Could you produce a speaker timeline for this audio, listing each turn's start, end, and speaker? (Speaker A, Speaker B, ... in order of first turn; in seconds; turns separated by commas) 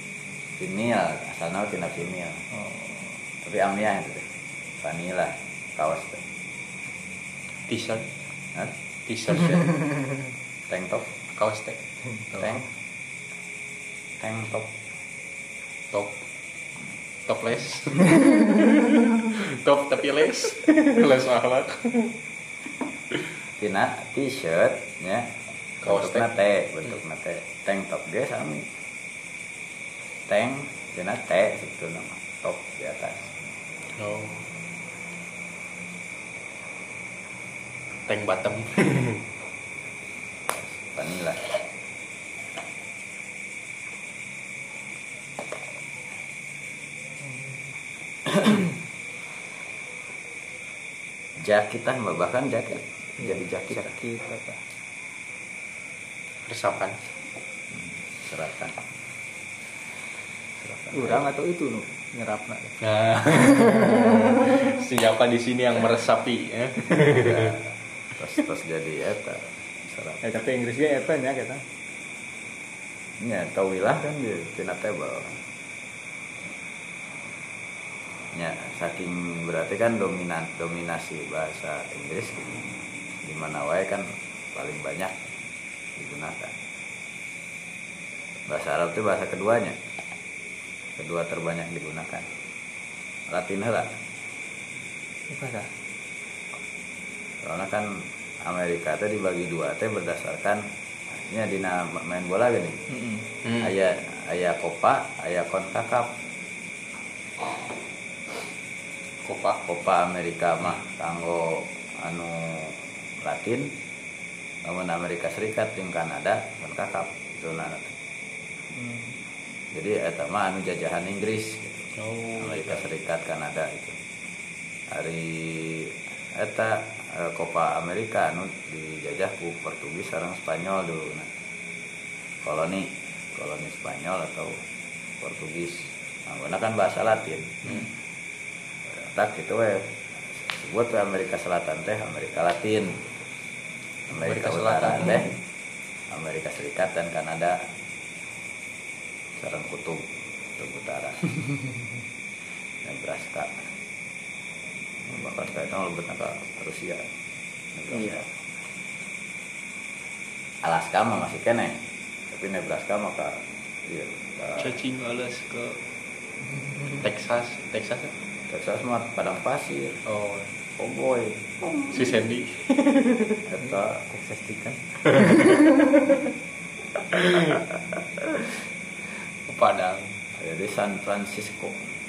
Speaker A: 0.6-2.5, Speaker B: 2.5-3.0, Speaker A: 3.4-6.2, Speaker C: 7.7-8.1, Speaker C: 9.1-9.8, Speaker A: 10.7-11.1, Speaker C: 11.3-11.8, Speaker A: 12.4-12.7, Speaker A: 14.2-14.7, Speaker C: 17.3-22.2, Speaker A: 23.6-28.7, Speaker C: 25.8-26.3, Speaker A: 30.3-33.3, Speaker C: 34.0-34.5, Speaker C: 38.1-39.2, Speaker A: 40.7-41.4, Speaker A: 51.4-53.9, Speaker B: 53.2-54.6, Speaker C: 56.5-57.0, Speaker A: 57.7-58.8, Speaker A: 60.6-61.2, Speaker B: 60.9-62.8, Speaker C: 62.8-67.5, Speaker A: 67.0-70.2, Speaker B: 70.2-71.6, Speaker A: 73.2-75.4, Speaker A: 78.3-82.7, Speaker A: 83.2-85.3, Speaker A: 86.0-86.6, Speaker A: 88.5-89.8, Speaker A: 91.0-92.3, Speaker A: 93.3-93.9, Speaker B: 95.3-95.7, Speaker A: 97.4-100.6, Speaker A: 101.1-102.8, Speaker B: 102.9-103.3, Speaker C: 103.4-103.7, Speaker A: 103.6-106.1, Speaker C: 109.2-109.6, Speaker A: 109.7-113.7, Speaker A: 114.6-117.9, Speaker B: 118.8-119.2, Speaker A: 119.7-124.0, Speaker C: 122.0-122.9, Speaker A: 124.9-131.3, Speaker A: 132.4-134.6, Speaker A: 135.2-137.7, Speaker A: 138.9-143.0, Speaker A: 144.1-145.3, Speaker C: 144.1-145.3, Speaker A: 146.1-147.6, Speaker A: 149.4-151.2, Speaker A: 152.8-153.6, Speaker A: 155.1-157.1, Speaker A: 157.7-158.2, Speaker B: 157.9-158.2, Speaker A: 160.6-164.8, Speaker C: 164.6-165.8, Speaker C: 166.9-168.1, Speaker A: 168.5-170.0, Speaker C: 170.1-170.6, Speaker A: 170.8-172.0, Speaker C: 171.9-173.4, Speaker A: 173.5-175.1, Speaker C: 177.2-177.6, Speaker C: 179.5-180.2, Speaker A: 180.4-181.8